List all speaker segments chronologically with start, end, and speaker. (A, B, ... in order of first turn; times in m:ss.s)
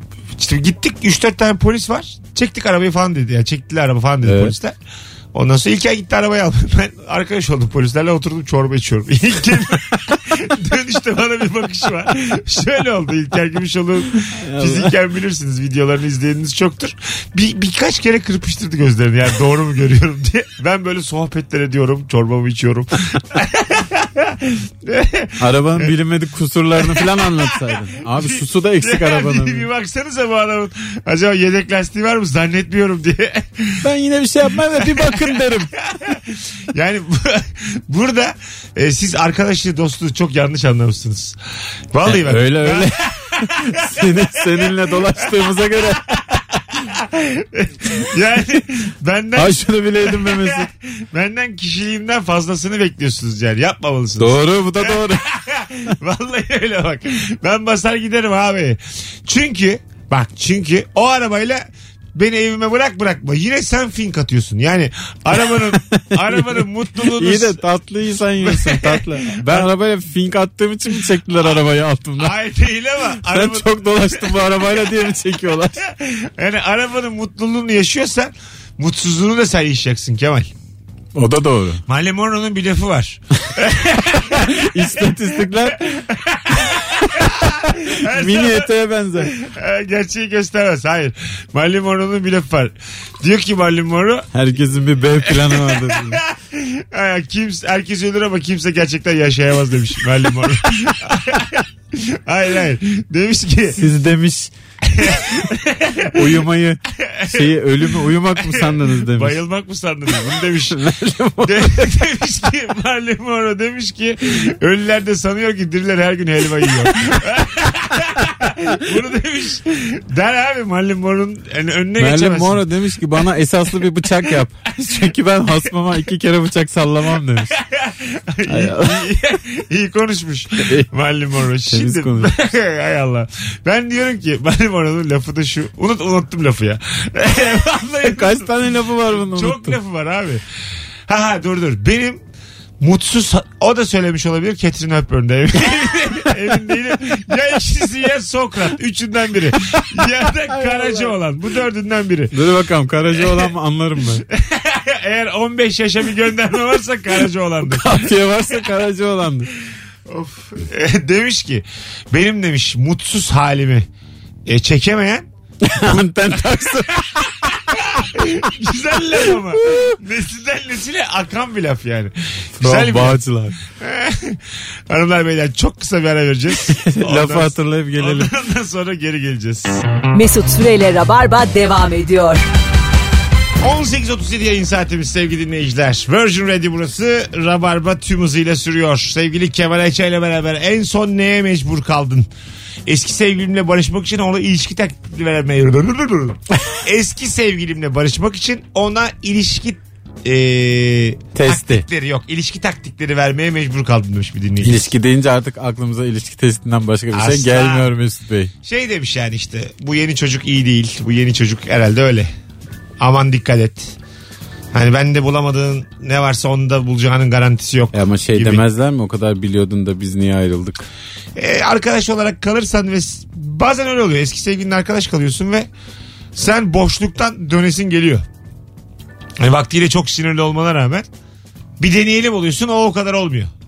0:00.4-0:04.8 A
0:04.2-0:04.5 B
0:05.3-0:25.9 A
0:14.4-0:15.0 B
0:25.4-0:29.7 B
0:26.8-0:33.8 A
0:33.8-0:35.7 B
0:34.7-0:41.4 A
0:41.9-0:45.3 A
0:42.0-0:46.4 B
0:46.8-1:07.6 A
0:49.4-0:50.7 B
0:54.2-0:55.2 B
1:05.4-1:12.4 B
1:08.4-1:09.7 A
1:12.2-1:14.4 A
1:13.2-1:15.8 B
1:15.8-1:20.5 A
1:21.2-1:21.8 B
1:21.9-1:28.7 A
1:24.2-1:25.9 B
1:27.0-1:29.3 B
1:29.2-1:34.3 A
1:34.3-1:36.2 B
1:35.2-1:43.8 A
1:43.7-1:44.5 B
1:44.9-1:46.4 A
1:46.2-1:49.4 B
1:47.0-1:50.8 A
1:50.2-1:51.9 B
1:51.4-2:02.7 A
2:02.0-2:07.6 B
2:07.6-2:18.5 A
2:08.5-2:09.1 B
2:10.6-2:10.9 B
2:11.7-2:12.3 B
2:18.0-2:19.8 B
2:19.1-2:20.4 A
2:21.1-2:22.2 A
2:22.8-2:32.4 A
2:29.7-2:31.2 B
2:32.3-2:34.2 B
2:33.1-2:33.5 A
2:34.3-2:38.0 A
2:37.6-2:39.5 B
2:40.1-2:43.9 A
2:44.5-2:45.2 A
2:45.6-2:48.1 B
2:47.7-2:59.8 A
2:49.3-2:50.0 B
2:52.6-2:53.6 B
2:56.7-2:58.3 B
3:00.1-3:02.4 C
3:03.6-3:12.3 A
3:12.9-3:24.9 A
3:21.3-3:21.9 B
3:24.6-3:28.5 B
3:27.1-3:27.9 A
3:28.6-3:32.3 A
3:33.0-3:34.0 A
3:34.7-3:38.6 A
3:37.9-3:40.8 B
3:41.4-3:45.7 A
3:46.4-3:48.3 A
3:49.4-3:51.1 A
3:51.8-3:53.5 A